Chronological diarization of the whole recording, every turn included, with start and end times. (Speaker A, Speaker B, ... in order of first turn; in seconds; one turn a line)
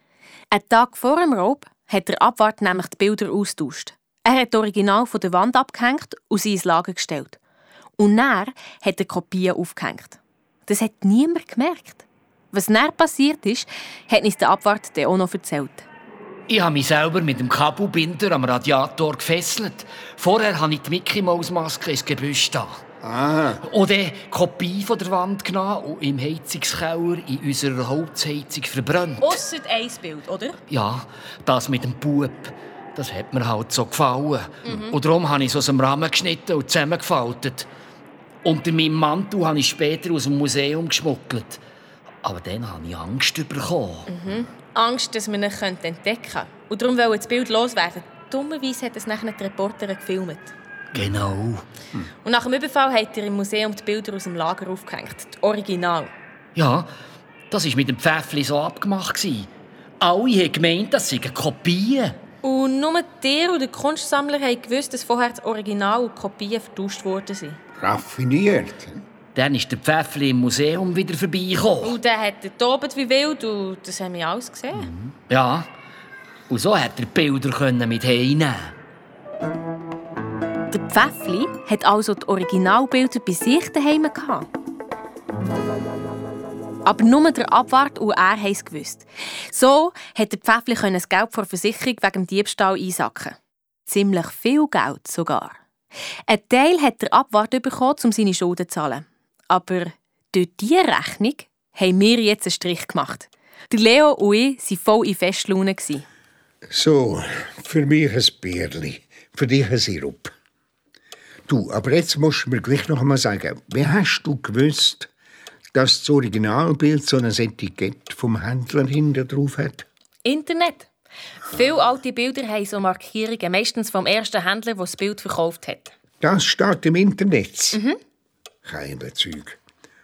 Speaker A: 0.5-7.4
Speaker A: 8.0-15.8
Speaker B: 16.5-22.8
Speaker C: 23.0-23.6
Speaker B: 23.6-29.4
Speaker A: 29.2-30.6
Speaker B: 30.7-37.7
Speaker A: 34.6-34.9
Speaker B: 38.4-41.6
Speaker B: 42.2-44.1
Speaker A: 44.1-50.5
Speaker B: 50.9-51.6
Speaker A: 52.2-56.1
Speaker B: 56.5-56.9
Speaker B: 57.5-59.5
Speaker B: 60.0-62.2
Speaker A: 62.4-67.6
Speaker C: 67.8-69.0
Speaker B: 69.3-72.0
Speaker A: 71.8-74.9
Speaker B: 74.9-75.7
Speaker B: 76.5-78.7
Speaker A: 80.7-84.5
Speaker A: 86.8-93.4
Speaker A: 93.9-95.6
Speaker A: 96.3-106.0
Speaker C: 106.7-110.3
Speaker C: 111.5-115.1
Speaker C: 115.7-119.8
Speaker A: 120.2-120.9
Speaker A: 121.5-125.9
Speaker C: 126.2-127.8
Speaker C: 128.6-129.6